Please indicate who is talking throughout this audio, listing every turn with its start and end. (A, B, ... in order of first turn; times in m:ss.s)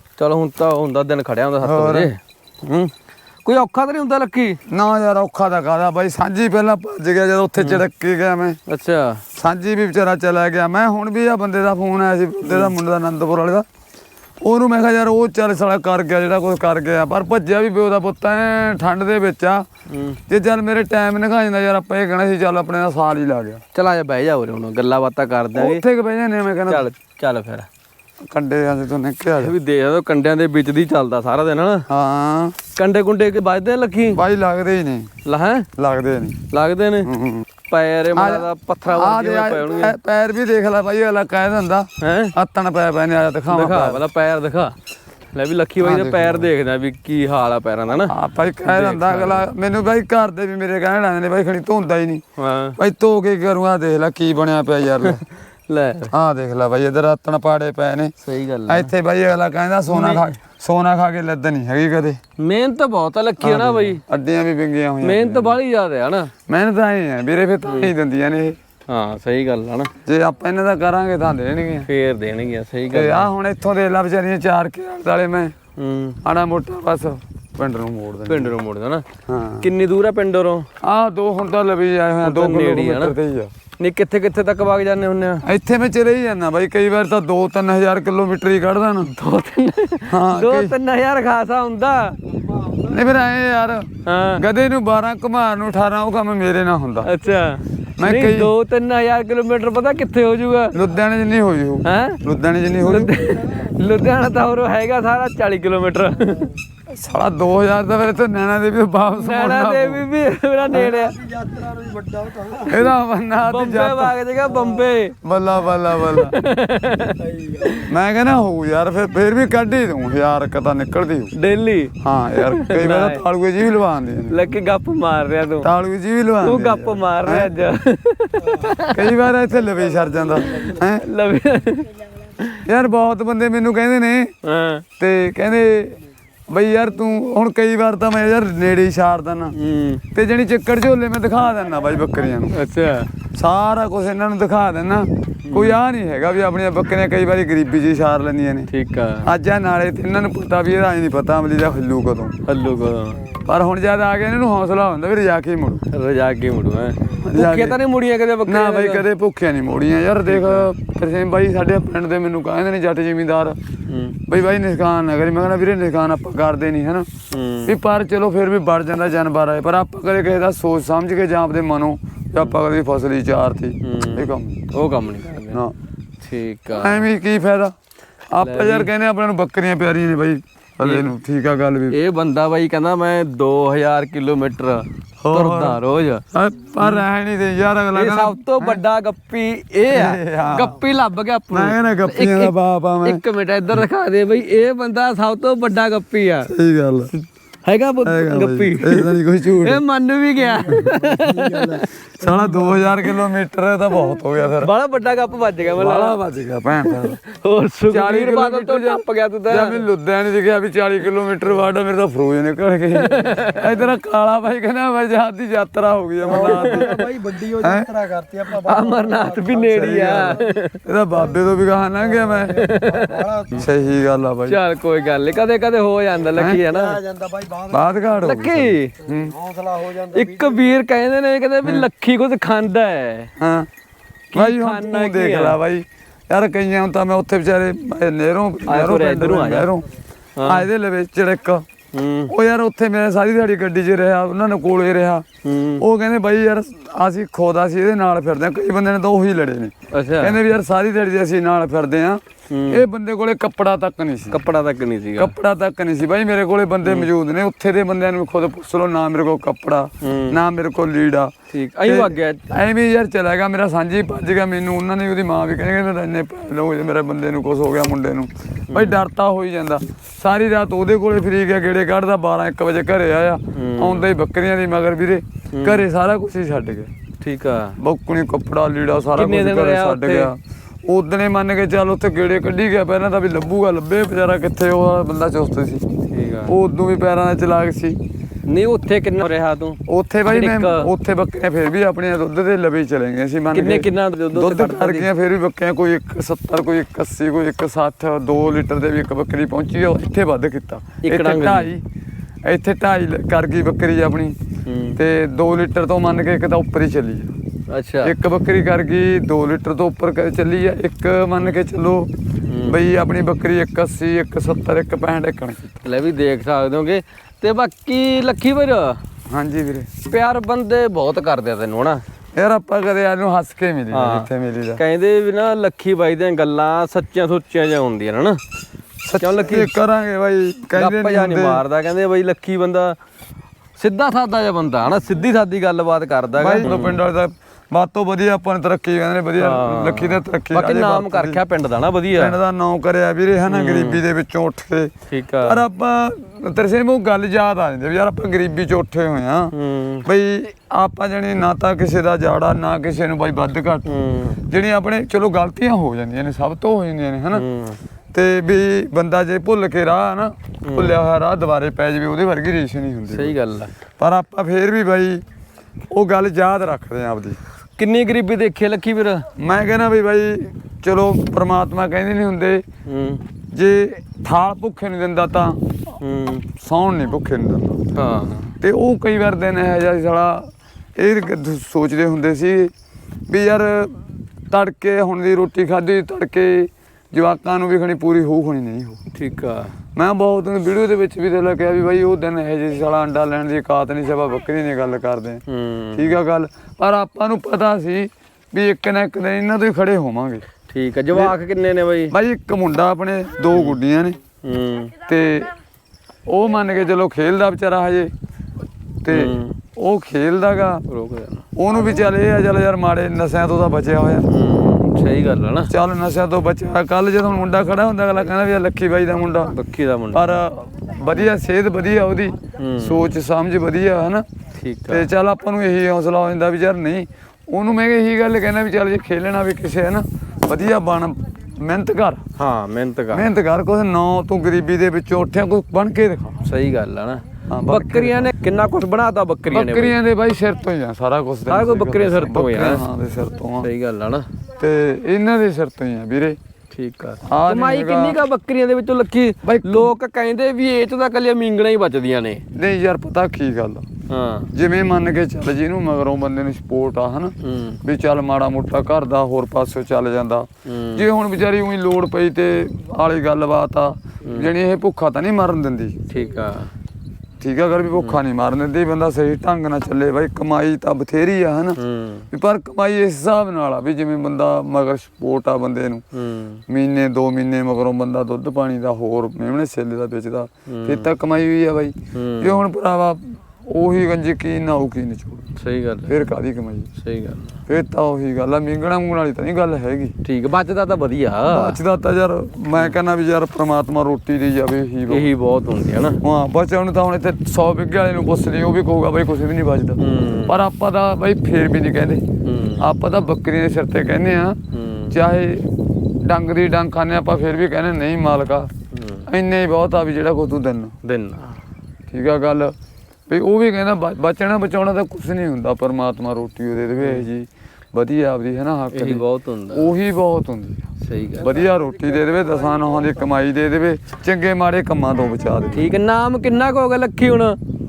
0:00.2-0:02.9 A
0:01.6-0:02.1 B
0:03.4-0:04.6 A
0:04.7-0:08.6 B
0:07.6-0:07.8 A
0:08.7-0:09.2 A
0:09.3-0:13.6 B
0:12.4-0:12.7 A
0:14.4-0:19.6 B
0:19.9-0:20.2 A
0:20.3-0:23.6 B
0:23.7-0:25.8 A
0:25.5-0:26.9 B
0:26.7-0:27.7 A
0:28.3-0:29.5 B
0:29.4-0:31.9 A
0:31.9-0:32.6 B
0:32.7-0:34.2 A
0:34.1-0:35.1 B
0:35.2-0:35.7 A
0:35.8-0:36.4 B
0:36.5-0:37.1 A
0:37.0-0:37.4 B
0:37.7-0:40.0 A
0:38.1-0:44.0 B
0:42.0-0:42.3 A
0:43.5-0:44.7 A
0:45.3-0:49.5 A
0:45.8-0:46.5 B
0:47.9-0:52.2 B
0:52.4-0:52.8 A
0:52.8-0:55.2 B
0:55.7-0:56.1 A
0:56.1-0:58.1 B
0:58.2-0:58.9 A
0:58.7-1:02.2 B
0:59.9-1:00.2 A
1:02.4-1:04.0 A
1:03.4-1:05.6 B
1:05.0-1:06.3 A
1:06.5-1:08.6 B
1:07.6-1:07.9 A
1:08.9-1:09.9 A
1:10.0-1:11.9 B
1:11.8-1:13.3 A
1:12.9-1:15.5 B
1:15.8-1:16.2 A
1:16.2-1:18.5 B
1:18.2-1:19.0 A
1:19.3-1:19.7 B
1:19.6-1:20.7 A
1:20.8-1:23.5 B
1:22.2-1:23.1 A
1:23.8-1:25.4 A
1:25.4-1:29.1 B
1:29.0-1:32.2 A
1:30.1-1:30.7 B
1:32.5-1:32.9 C
1:32.8-1:37.1 B
1:34.0-1:34.4 A
1:37.0-1:40.7 A
1:38.0-1:38.5 B
1:40.7-1:43.1 B
1:41.8-1:42.2 A
1:42.8-1:46.5 A
1:43.2-1:43.8 C
1:46.9-1:50.0 B
1:49.1-1:51.2 A
1:50.6-1:52.9 C
1:52.6-1:54.2 B
1:53.4-1:55.2 A
1:54.4-1:54.9 C
1:55.2-1:56.4 B
1:55.9-1:57.9 A
1:57.0-1:57.8 C
1:57.8-2:01.3 B
2:01.4-2:03.2 A
2:02.0-2:04.4 B
2:04.3-2:05.7 A
2:05.6-2:07.5 B
2:06.4-2:09.1 A
2:08.4-2:08.8 C
2:08.9-2:11.0 B
2:09.6-2:10.8 C
2:10.4-2:12.6 A
2:12.6-2:14.3 B
2:14.4-2:14.8 A
2:15.0-2:16.0 B
2:16.5-2:19.5 B
2:19.5-2:20.0 A
2:20.1-2:22.6 B
2:22.5-2:23.1 A
2:23.3-2:28.7 B
2:25.5-2:25.8 A
2:28.7-2:29.3 A
2:29.2-2:32.4 B
2:32.4-2:33.2 A
2:33.4-2:35.8 B
2:35.9-2:39.0 A
2:37.2-2:37.8 B
2:38.4-2:43.6 B
2:40.3-2:40.7 A
2:43.9-2:44.2 A
2:44.2-2:47.1 B
2:47.3-2:47.7 A
2:47.6-2:54.7 B
2:53.8-2:55.6 A
2:55.5-2:55.7 B
2:56.2-2:57.0 A
2:56.7-2:57.7 B
2:58.3-3:02.0 B
2:58.4-2:58.9 A
3:00.8-3:01.1 A
3:01.9-3:06.2 A
3:05.2-3:05.8 B
3:06.3-3:08.8 B
3:07.9-3:16.5 A
3:09.9-3:10.8 B
3:11.5-3:13.2 B
3:16.4-3:17.1 B
3:17.1-3:21.8 A
3:18.0-3:19.8 B
3:20.4-3:22.9 C
3:22.2-3:24.7 B
3:24.6-3:26.2 A
3:25.8-3:27.2 B
3:26.8-3:29.8 A
3:27.9-3:37.0 B
3:33.0-3:33.7 A
3:36.2-3:40.6 C
3:36.2-3:37.0 A
3:37.6-3:37.9 B
3:38.5-3:40.8 A
3:39.7-3:42.7 B
3:42.0-3:43.7 C
3:42.5-3:43.6 A
3:43.6-3:44.6 B
3:44.5-3:47.0 A
3:46.3-3:46.6 B
3:46.5-3:48.3 C
3:47.7-3:49.3 B
3:48.2-3:48.9 A
3:49.0-3:50.8 C
3:50.1-3:53.3 A
3:53.4-3:53.7 B
3:54.3-3:55.6 A
3:54.3-3:59.9 B
3:58.7-3:59.7 A
4:00.4-4:00.7 A
4:00.4-4:01.6 B
4:01.9-4:02.3 A
4:02.3-4:05.2 B
4:05.4-4:05.8 A
4:05.8-4:14.4 B
4:09.9-4:10.4 A
4:12.5-4:12.8 A
4:14.3-4:15.3 A
4:15.2-4:21.3 B
4:16.8-4:17.1 A
4:20.0-4:20.4 A
4:21.5-4:22.5 A
4:21.8-4:36.9 B
4:28.7-4:29.0 A
4:33.5-4:34.1 A
4:35.5-4:35.8 A
4:37.2-4:37.8 A
4:37.8-4:45.8 B
4:39.1-4:40.3 A
4:46.1-4:46.5 A
4:46.4-4:48.0 B
4:48.5-4:50.9 A
4:49.9-5:01.8 B
4:53.5-4:55.1 A
5:01.0-5:01.7 A
5:02.4-5:04.4 B
5:04.6-5:05.0 A
5:04.9-5:07.3 B
5:07.7-5:08.1 A
5:08.0-5:12.1 B
5:12.5-5:12.7 A
5:12.6-5:15.7 B
5:15.8-5:19.0 A
5:19.3-5:19.9 B
5:20.0-5:22.0 A
5:22.3-5:24.8 B
5:23.9-5:28.4 A
5:29.0-5:31.6 B
5:29.2-5:29.7 A
5:30.8-5:33.0 A
5:33.8-5:37.0 A
5:36.4-5:41.4 B
5:39.4-5:42.4 A
5:42.1-5:49.5 B
5:43.5-5:44.0 A
5:45.1-5:45.6 A
5:49.5-5:50.0 A
5:50.0-5:53.8 B
5:53.8-5:54.4 A
5:54.4-5:57.4 B
5:57.3-5:57.8 A
5:58.1-6:03.4 B
6:00.7-6:01.0 A
6:03.1-6:03.7 A
6:04.0-6:05.2 B
6:05.9-6:07.4 B
6:07.8-6:09.3 A
6:09.4-6:12.6 B
6:12.8-6:13.2 A
6:13.5-6:15.6 B
6:16.0-6:16.4 A
6:16.5-6:17.8 B
6:17.9-6:18.5 A
6:18.6-6:22.7 B
6:23.3-6:29.0 B
6:29.1-6:29.7 A
6:30.0-6:35.4 B
6:35.5-6:36.2 A
6:35.9-6:40.4 B
6:40.7-6:42.1 A
6:42.1-6:44.2 B
6:43.5-6:43.8 A
6:44.4-6:44.9 A
6:45.0-6:45.5 B
6:46.3-6:48.1 B
6:49.0-6:50.8 B
6:49.1-6:49.5 A
6:50.9-6:51.4 A
6:51.6-6:54.3 B
6:54.3-6:55.7 A
6:55.7-6:59.5 B
6:59.5-7:00.3 A
7:00.1-7:04.2 B
7:02.6-7:03.1 A
7:04.6-7:05.1 A
7:04.9-7:12.2 B
7:12.4-7:13.2 A
7:13.1-7:16.4 B
7:16.4-7:20.0 A
7:17.5-7:18.3 B
7:19.5-7:23.7 B
7:21.5-7:22.8 A
7:23.6-7:24.3 A
7:24.6-7:26.4 B
7:26.7-7:32.4 A
7:27.2-7:28.2 B
7:29.4-7:29.9 B
7:32.5-7:33.8 B
7:34.1-7:34.5 A
7:34.5-7:46.0 B
7:37.4-7:37.8 A
7:40.6-7:41.0 A
7:44.2-7:44.5 A
7:46.1-7:46.7 A
7:47.4-7:51.8 B
7:51.8-7:52.3 A
7:52.3-7:56.0 B
7:56.1-7:56.6 A
7:56.7-8:05.5 B
8:00.7-8:01.1 A
8:02.1-8:02.6 A
8:05.6-8:06.3 A
8:06.1-8:06.9 B
8:07.0-8:07.6 A
8:07.7-8:10.1 B
8:10.2-8:11.8 A
8:11.5-8:15.3 B
8:15.1-8:16.2 A
8:16.2-8:22.2 B
8:20.0-8:20.5 A
8:22.4-8:22.8 A
8:22.8-8:24.6 B
8:24.7-8:25.2 A
8:25.1-8:28.7 B
8:28.9-8:29.2 A
8:29.3-8:30.9 B
8:31.0-8:31.5 A
8:32.1-8:32.7 B
8:33.3-8:40.8 B
8:37.0-8:37.3 A
8:38.9-8:39.9 A
8:41.0-8:41.6 A
8:41.4-8:45.9 B
8:45.7-8:47.6 A